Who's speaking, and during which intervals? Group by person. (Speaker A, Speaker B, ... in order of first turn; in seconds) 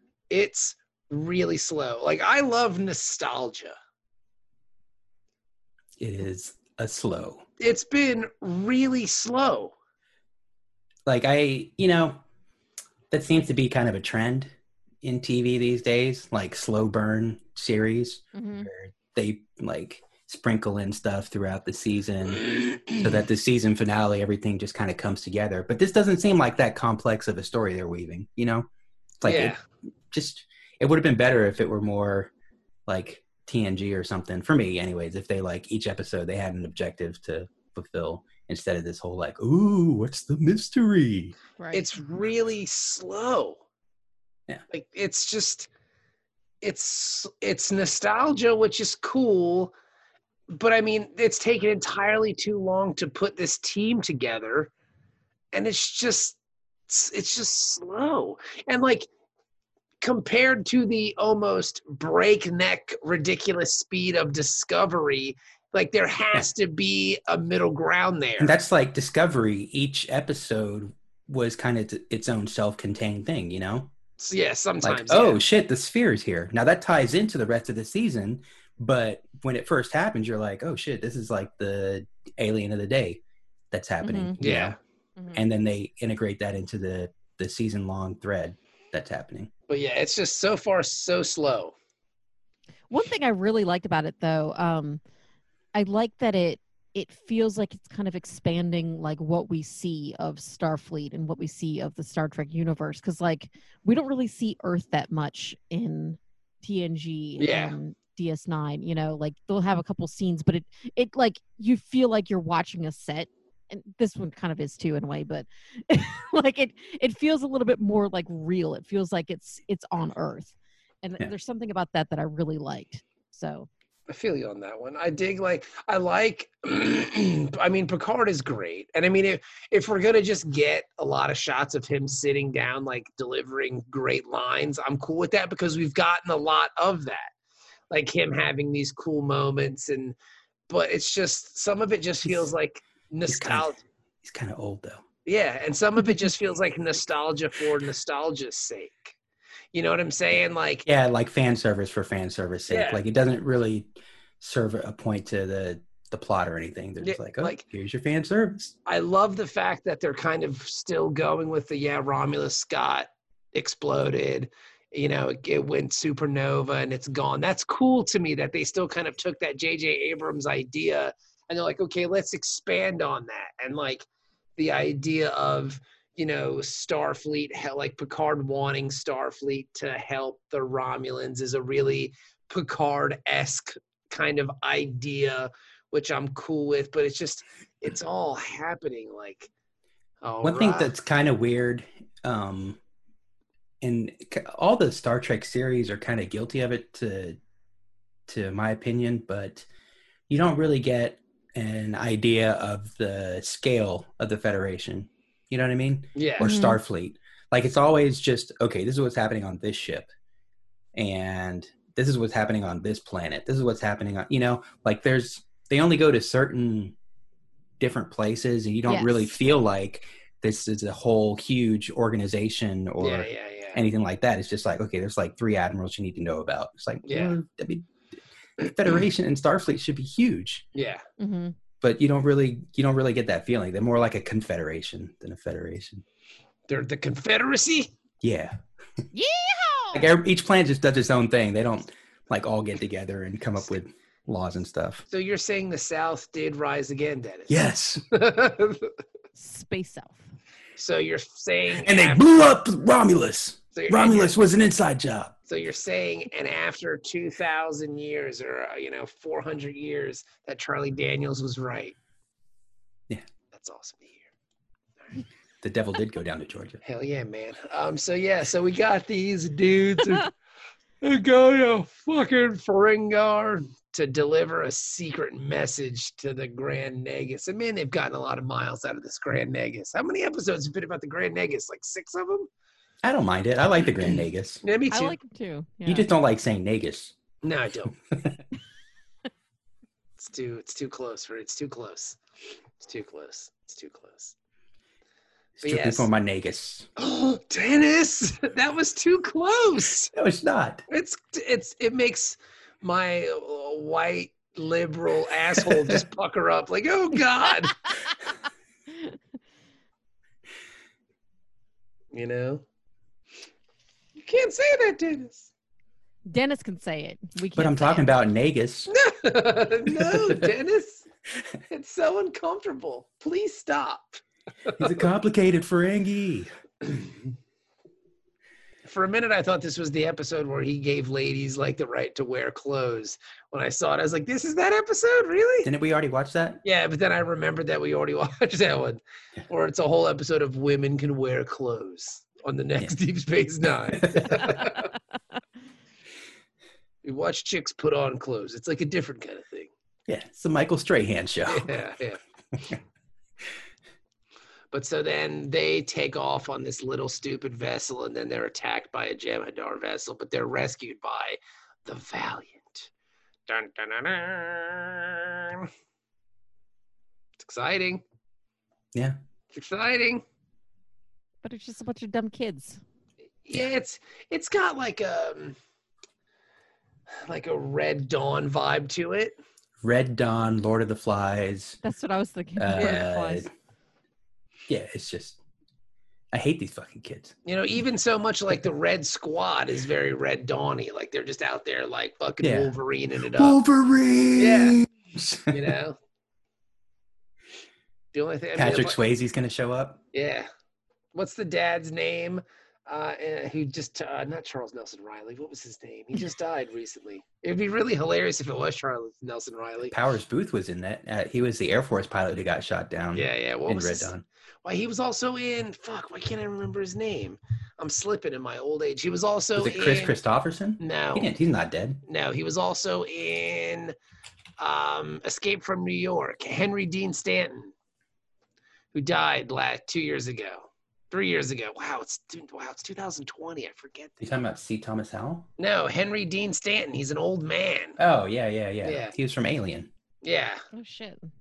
Speaker A: 0.3-3.7, 7.6-9.7, 22.4-23.1, 29.2-29.6, 41.7-43.6, 44.7-45.7, 46.6-49.7, 50.5-54.7, 55.5-59.1, 60.0-68.5, 74.2-75.4, 84.4-84.8, 89.7-91.7, 107.4-107.8, 124.1-137.3, 137.9-140.2, 140.7-143.8, 145.2-149.2, 149.7-150.8, 152.7-153.0, 157.0-157.6, 158.8-174.1, 174.6-189.5, 190.2-190.9, 206.2-206.5, 223.0-223.8, 227.1-227.3, 230.7-231.0, 236.7-237.9, 245.1-247.6, 248.1-248.9, 250.8-252.2, 253.7-254.3, 255.5-261.9, 263.5-264.3, 266.8-270.3, 271.0-282.5, 284.6-285.2, 287.4-287.9, 290.2-292.2, 292.8-294.3, 295.6-296.1, 297.0-300.1, 300.9-307.8, 312.1-312.6, 314.2-315.5, 318.9-321.0, 321.7-324.9, 328.8-335.7, 336.6-344.9, 347.0-349.7, 351.5-352.2, 354.7-362.9, 363.5-365.7, 367.4-368.0, 369.5-370.2, 373.4-375.6, 377.2-379.4, 382.8-383.1, 387.4-393.6, 394.4-394.8, 395.5-396.0, 398.1-399.0, 400.1-400.5, 401.1-409.9, 413.1-414.1, 414.6-420.1, 420.8-421.3, 422.1-423.9, 424.6-427.7, 428.9-434.3, 435.6-438.0, 438.8-439.1, 440.2-440.6
Speaker B: 6.0-7.4, 11.1-12.2, 13.1-28.7, 29.2-29.6, 30.1-32.3, 32.9-41.3, 68.4-73.9, 74.8-83.2, 83.7-84.8, 85.3-89.5, 143.3-143.7, 144.2-145.0, 150.8-158.7, 190.4-192.8, 193.8-197.4, 198.3-199.7, 200.3-210.1, 210.9-216.9, 217.8-227.9, 228.6-230.6, 231.8-236.0, 238.2-238.6, 239.9-245.1, 247.5-248.0, 251.7-255.3, 265.6-266.8, 283.0-284.6, 285.9-287.1, 288.1-288.4, 295.6-296.9, 300.1-300.8, 317.6-318.9, 320.1-320.4, 324.8-326.5, 335.6-336.6, 344.0-344.5, 350.1-351.7, 352.5-352.8, 379.8-381.8, 382.6-383.5, 384.7-385.4, 386.3-387.3, 392.4-392.7, 393.3-395.7, 398.5-400.0, 409.9-414.2, 419.6-422.0, 434.2-435.5, 438.0-439.9
Speaker C: 18.3-18.7, 41.6-41.9, 84.0-84.4, 92.9-95.0, 95.7-123.7, 206.4-206.8, 218.9-219.3, 231.2-231.5, 239.1-240.1, 249.3-250.2, 284.9-286.1, 316.3-318.0, 371.4-372.8, 381.8-383.5, 440.7-441.3